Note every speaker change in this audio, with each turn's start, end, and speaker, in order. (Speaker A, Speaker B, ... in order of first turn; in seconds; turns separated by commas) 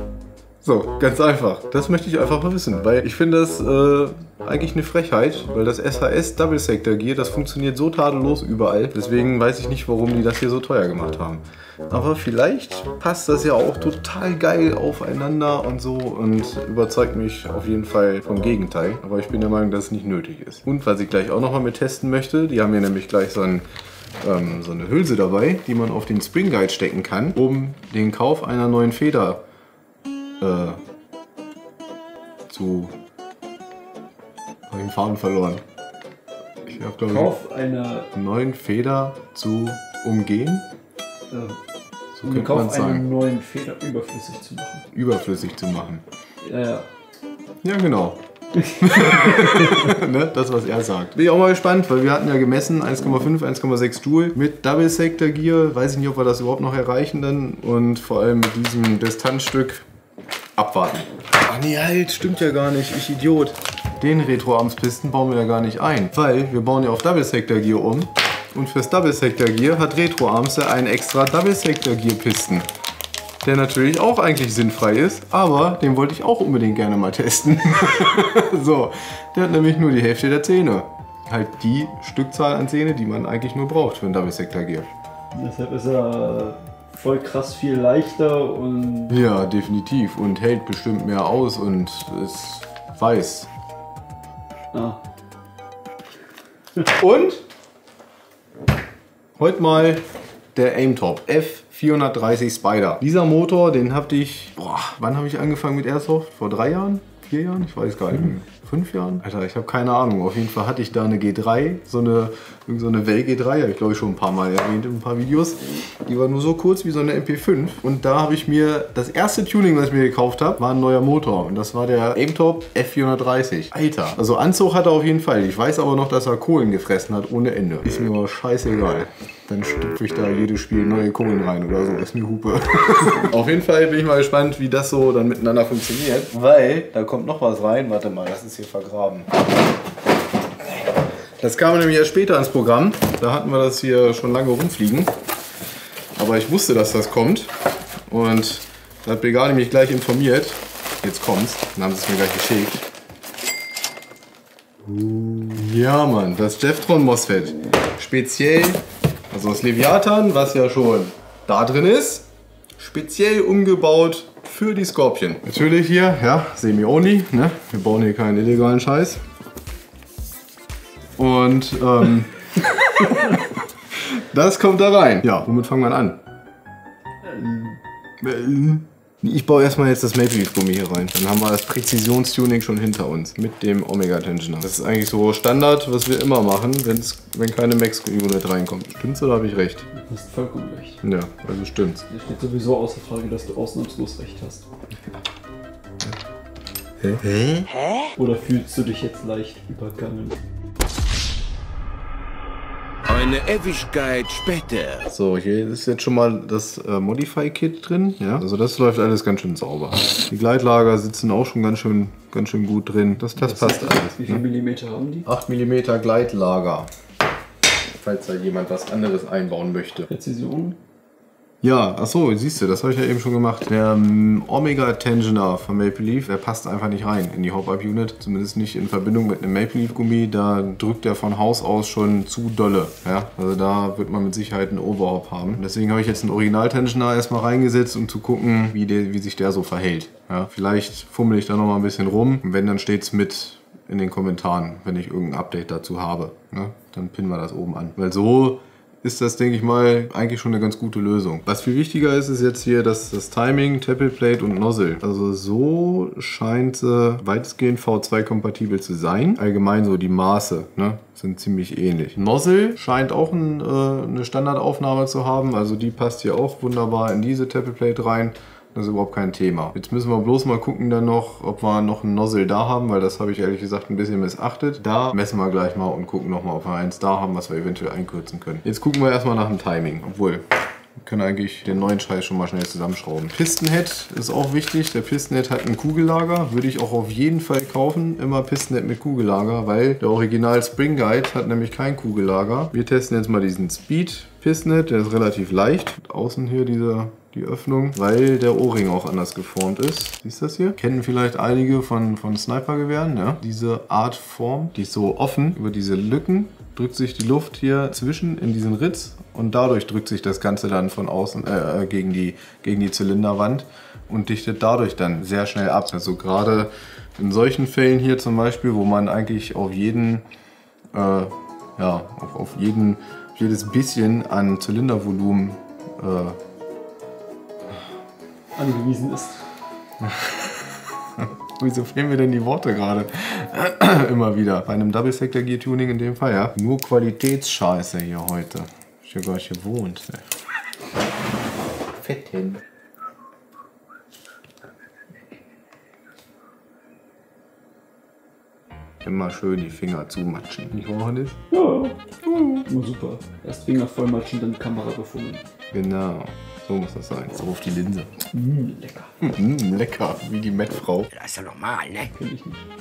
Speaker A: 0.6-23.6, Speaker A: 24.2-29.4, Speaker A: 30.4-30.8, Speaker A: 32.5-32.9, Speaker A: 34.7-35.6, Speaker A: 36.7-37.3, Speaker B: 37.0-38.1, Speaker A: 38.1-40.6, Speaker B: 41.3-41.6, Speaker A: 42.1-43.0, Speaker B: 42.2-44.9, Speaker A: 44.9-46.0, Speaker B: 46.4-46.9, Speaker A: 47.6-59.8, Speaker B: 48.6-49.9, Speaker A: 60.5-72.7, Speaker A: 73.4-84.9, Speaker B: 85.3-89.2, Speaker A: 89.1-93.5, Speaker B: 94.7-95.0, Speaker A: 97.0-97.4, Speaker A: 99.4-139.3, Speaker A: 141.4-145.1, Speaker A: 146.1-147.5, Speaker A: 148.1-152.8, Speaker A: 154.8-169.2, Speaker A: 171.2-176.2, Speaker B: 177.2-177.8, Speaker A: 178.2-189.9, Speaker B: 189.9-191.0, Speaker A: 191.0-192.1, Speaker B: 192.1-194.7, Speaker A: 197.0-197.7, Speaker B: 198.2-200.4, Speaker C: 203.1-205.1, Speaker A: 205.1-214.4, Speaker B: 213.4-215.3, Speaker A: 215.2-216.9, Speaker A: 217.9-220.1, Speaker B: 220.1-220.8, Speaker A: 221.6-280.4, Speaker A: 281.0-320.2, Speaker A: 320.9-326.4, Speaker B: 328.6-329.4, Speaker A: 330.0-340.3, Speaker A: 342.0-342.6, Speaker A: 349.0-351.4, Speaker B: 351.5-352.0, Speaker A: 352.2-352.6, Speaker B: 352.6-355.4, Speaker A: 355.7-358.1, Speaker B: 358.3-359.1, Speaker A: 359.2-361.1, Speaker C: 361.1-362.1, Speaker B: 362.1-362.6